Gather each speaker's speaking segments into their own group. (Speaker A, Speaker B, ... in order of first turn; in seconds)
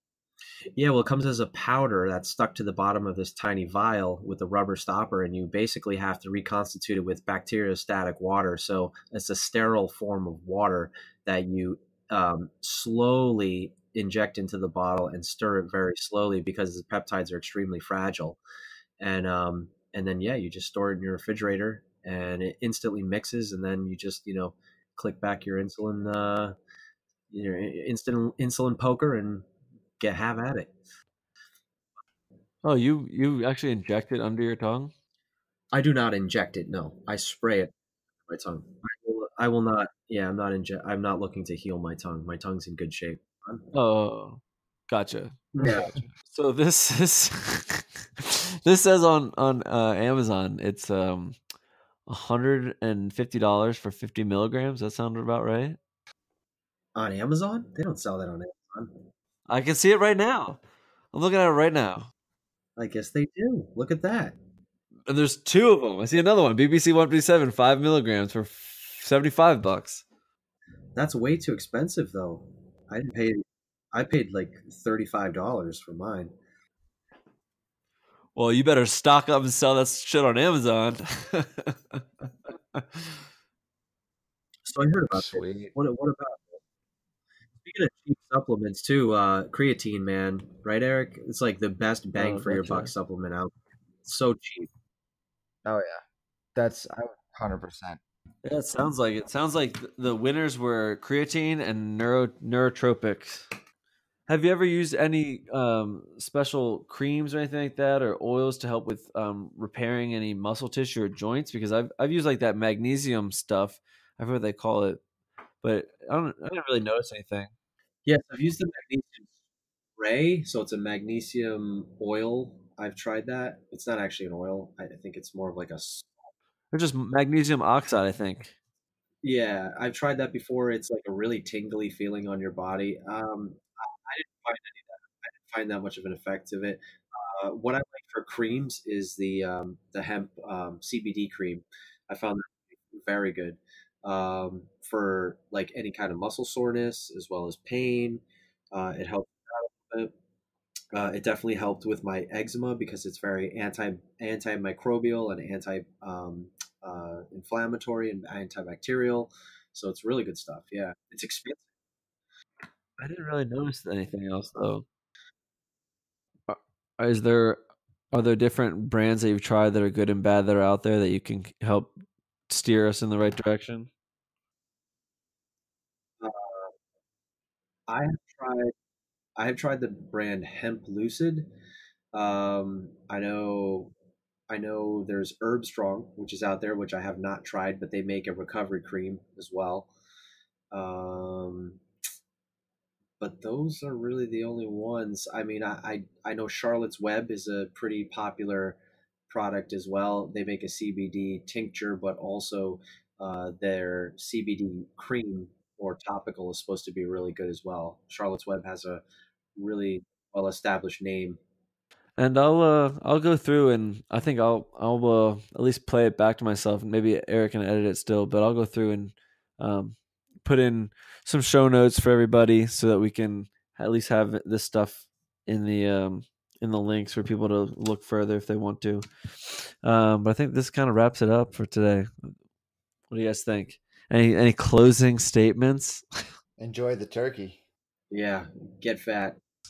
Speaker A: 0.8-18.4, 19.0-26.6, 27.3-29.5, 30.0-30.7, 35.7-37.7, 38.3-43.7, 45.5-46.0, 57.0-59.0, 62.8-64.4, 71.0-76.3, 84.7-86.6, 87.6-94.7, 118.1-119.3, 120.0-126.3, 129.2-150.1, 150.9-161.7, 176.2-176.7, 177.9-178.7, 179.4-181.5, 182.1-183.9, 184.5-189.9, 190.7-191.8, 193.2-198.8, 199.3-209.0, 209.6-211.4, 238.1-239.4
Speaker B: 32.6-34.9, 43.7-51.4, 52.1-55.8, 59.5-60.6, 61.1-62.1, 65.1-70.0, 78.3-83.3, 92.2-92.9, 98.4-103.6, 104.3-115.0, 115.6-117.5, 126.7-128.5, 163.0-164.8, 166.5-167.6, 168.1-171.9, 172.5-173.9, 212.2-232.3, 233.1-236.0
Speaker C: 45.6-45.9, 85.1-85.7, 95.7-96.0, 96.5-98.0, 236.6-237.6